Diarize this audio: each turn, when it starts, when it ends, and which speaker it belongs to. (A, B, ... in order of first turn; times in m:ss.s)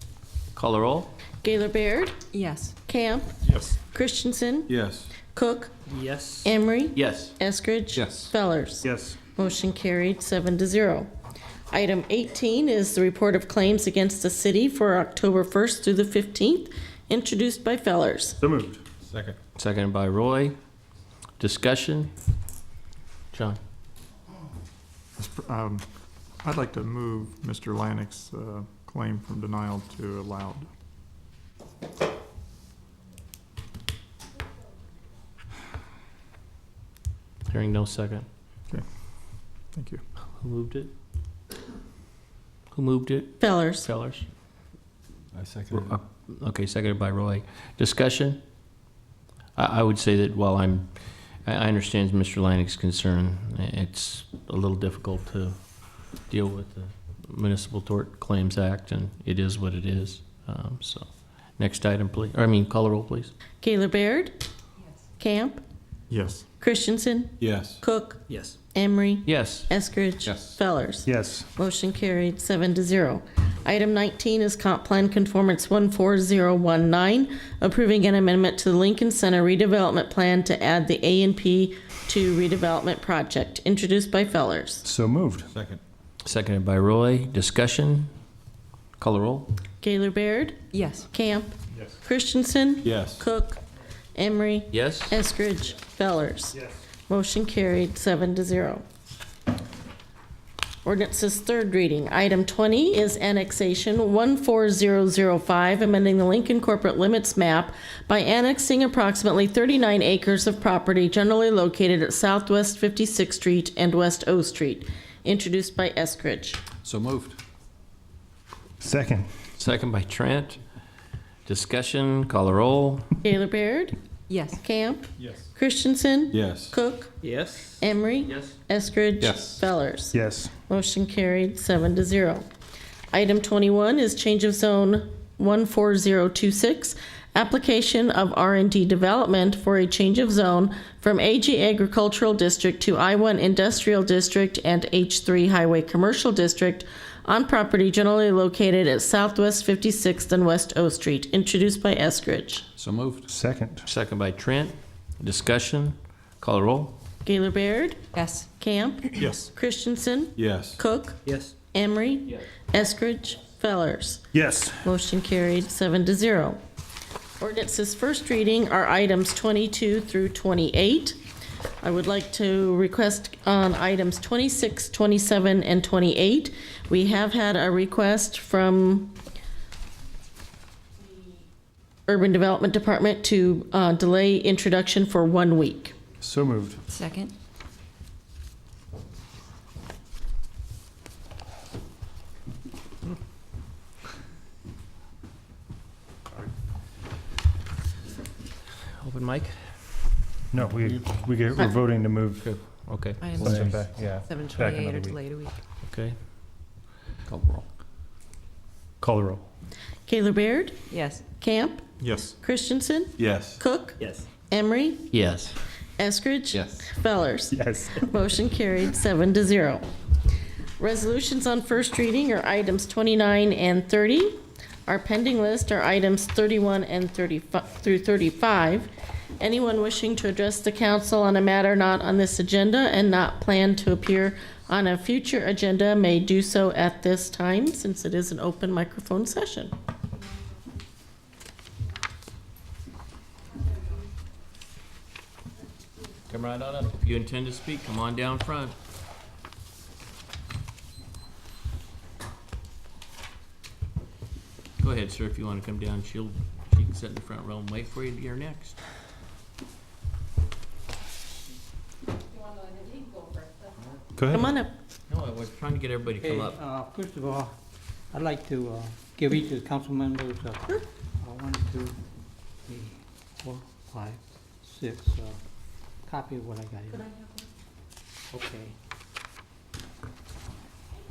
0:00.6-0:01.1 A
0:01.4-0:02.2 B
0:02.3-0:02.8 C
0:02.9-0:04.7 B
0:04.7-0:05.1 D
0:05.2-0:05.7 B
0:06.4-0:11.1 B
0:07.0-0:07.3 A
0:07.9-0:08.3 D
0:08.8-0:09.2 E
0:11.7-0:18.4 B
0:18.4-0:18.8 E
0:19.1-0:19.4 D
0:19.6-0:20.6 A
0:21.4-0:22.1 A
0:23.3-0:23.6 A
0:25.2-0:25.8 F
0:26.4-0:30.7 F
0:37.5-0:38.3 A
0:39.7-0:40.0 F
0:40.4-0:40.9 A
0:42.7-0:44.2 A
0:43.4-0:43.9 B
0:45.3-0:46.0 D
0:45.7-0:48.4 A
0:49.6-0:50.9 A
0:51.4-0:55.6 A
0:56.3-1:03.3 A
1:03.6-1:04.3 B
1:05.2-1:05.6 B
1:06.1-1:06.4 F
1:06.6-1:08.2 B
1:07.4-1:07.8 D
1:08.7-1:24.8 B
1:09.2-1:09.7 A
1:10.2-1:10.6 D
1:11.1-1:11.5 E
1:24.8-1:25.5 E
1:25.5-1:25.8 D
1:26.2-1:28.1 A
1:29.0-1:29.5 A
1:29.8-1:30.6 B
1:30.7-1:31.1 C
1:31.1-1:33.6 B
1:32.8-1:33.3 D
1:34.2-1:38.8 B
1:34.7-1:35.2 A
1:40.8-1:56.6 B
1:56.8-1:57.4 D
1:58.8-1:59.3 E
1:59.6-2:00.6 A
2:01.5-2:03.1 A
2:03.2-2:04.0 B
2:04.3-2:04.6 C
2:04.6-2:07.1 B
2:06.3-2:06.8 D
2:07.8-2:12.4 B
2:08.3-2:08.5 A
2:09.2-2:09.6 D
2:10.1-2:10.5 E
2:13.1-2:32.6 B
2:32.8-2:33.3 D
2:33.3-2:33.9 E
2:33.8-2:37.0 A
2:37.2-2:38.0 B
2:38.1-2:38.5 C
2:38.6-2:41.2 B
2:40.4-2:40.8 D
2:41.7-2:44.2 B
2:44.3-2:44.9 E
2:44.8-2:46.6 B
2:47.4-2:51.2 B
2:51.8-2:59.2 B
3:02.1-3:06.0 B
3:06.2-3:06.8 E
3:06.9-3:07.3 C
3:19.0-3:19.8 A
3:20.5-3:22.5 E
3:22.4-3:23.8 A
3:23.4-3:25.2 E
3:25.8-3:26.2 A
3:27.3-3:27.6 D
3:29.0-3:29.4 E
3:30.1-3:30.8 B
3:30.9-3:31.2 C
3:31.4-3:31.8 B
3:32.0-3:32.3 F
3:32.4-3:35.2 B
3:33.2-3:33.6 D
3:35.1-3:35.6 A
3:36.0-3:39.8 B
3:36.5-3:36.8 D
3:37.5-3:38.1 E
3:40.8-3:48.9 B
3:49.4-3:59.7 B
4:06.3-4:08.8 A
4:14.8-4:18.8 A
4:24.2-4:24.5 E
4:24.3-4:24.7 B
4:25.1-4:26.6 A
4:26.2-4:27.5 G
4:28.1-4:32.0 G
4:32.7-4:35.4 G
4:36.1-4:37.1 G
4:38.3-4:38.7 G